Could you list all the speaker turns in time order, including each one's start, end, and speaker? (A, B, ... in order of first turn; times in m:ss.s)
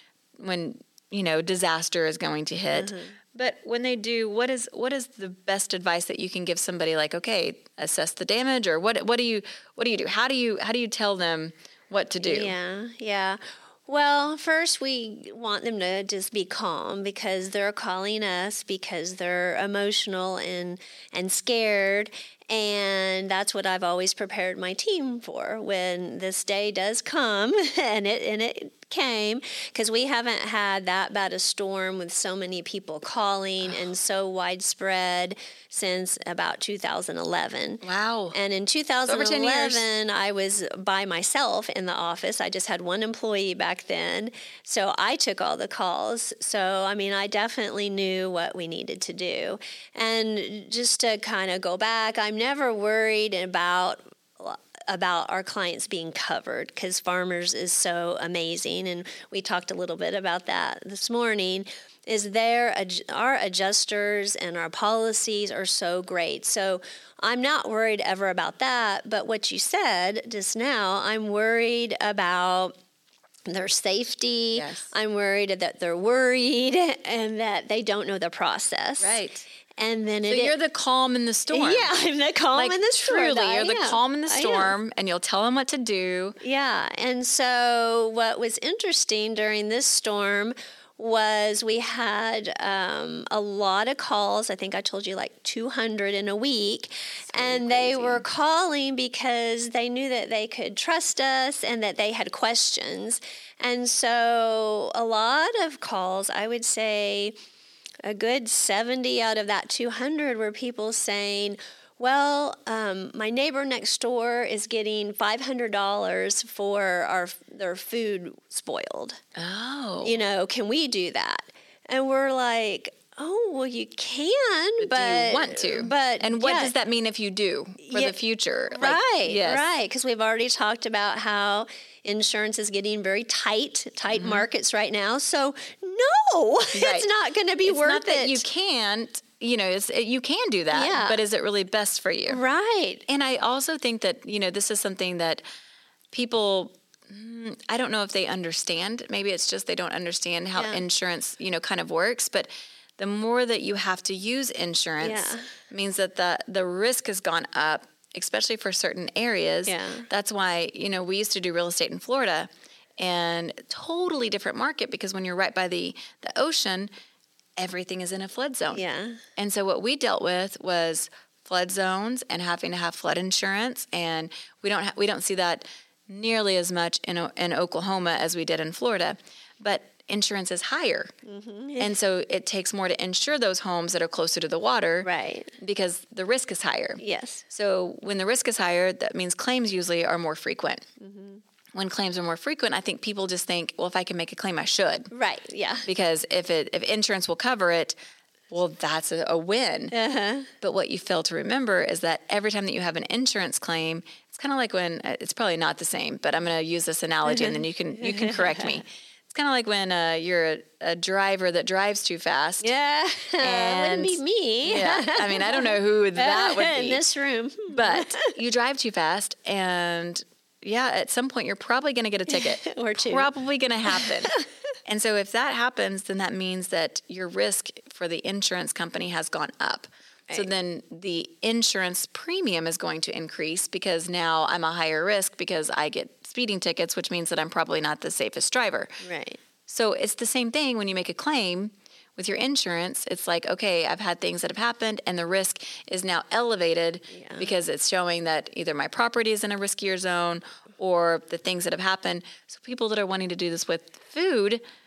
0:00.4-0:12.6 A
0:02.7-0:03.2 B
0:12.2-1:12.7 B
0:37.8-0:38.4 A
0:39.0-0:39.9 A
1:13.5-1:19.2 B
1:14.5-1:14.9 A
1:19.0-1:19.5 A
1:19.8-1:20.6 B
1:20.2-1:21.9 A
1:21.5-1:24.7 B
1:22.5-1:26.4 A
1:26.4-1:47.4 B
1:37.3-1:38.2 A
1:48.0-1:59.2 B
1:59.4-2:00.2 A
2:00.0-2:06.7 B
2:04.8-2:09.7 A
2:07.8-2:08.2 B
2:08.7-2:18.4 B
2:14.1-2:14.4 A
2:16.7-2:17.1 A
2:17.6-2:22.4 A
2:20.7-2:21.2 B
2:22.3-2:23.0 B
2:23.1-2:25.4 A
2:26.1-2:46.9 A
2:30.6-2:30.8 B
2:35.0-2:35.4 B
2:39.7-2:40.1 B
2:47.6-2:48.8 A
2:48.7-2:49.2 B
2:49.4-3:01.1 A
3:01.3-3:01.9 B
3:01.8-3:05.1 A
3:05.0-3:05.5 B
3:05.6-3:10.8 A
3:07.0-3:07.4 B
3:11.0-3:11.4 B
3:11.8-3:15.1 A
3:15.1-3:15.9 B
3:15.9-3:18.0 A
3:18.5-3:19.9 A
3:19.9-3:20.5 B
3:20.6-3:32.7 A
3:27.2-3:28.8 B
3:32.6-3:38.3 B
3:33.4-3:37.0 A
3:37.7-3:59.0 A
3:42.3-3:43.3 B
3:44.0-3:44.4 B
3:59.0-3:59.4 B
3:59.7-4:14.6 A
4:07.1-4:07.5 B